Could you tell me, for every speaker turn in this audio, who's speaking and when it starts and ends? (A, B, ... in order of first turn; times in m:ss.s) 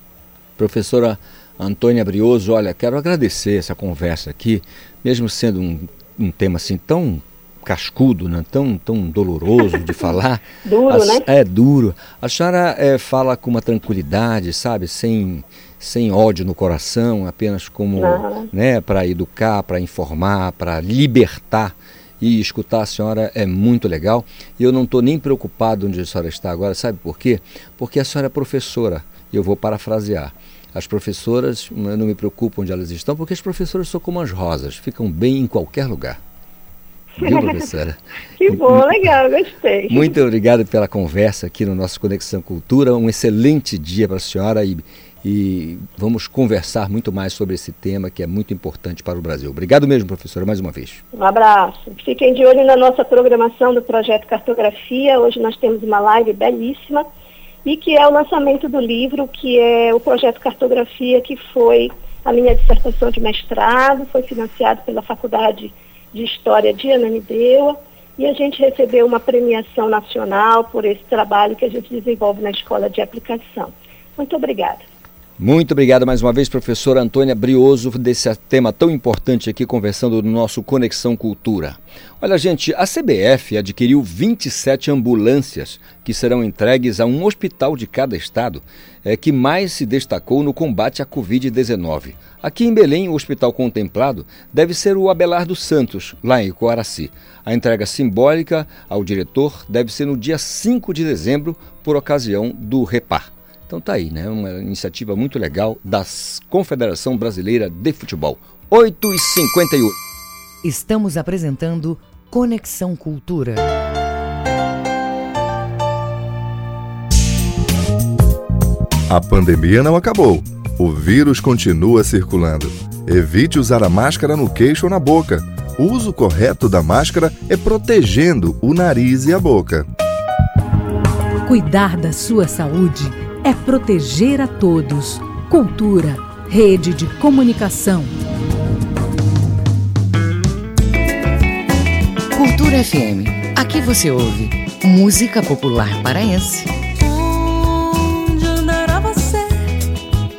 0:00.6-0:36.2 A
0:10.6-0:11.2 B
0:18.0-0:18.5 B
0:37.2-0:39.0 A
0:37.2-0:37.7 B
0:38.4-0:40.1 B
0:39.9-0:51.0 A
0:51.1-0:57.0 B
0:57.6-1:14.8 B
1:15.4-1:49.9 A
1:50.6-1:53.6 C
1:59.1-2:09.9 D
2:11.4-2:18.1 E
2:22.3-2:26.7 C
2:27.0-2:29.7 F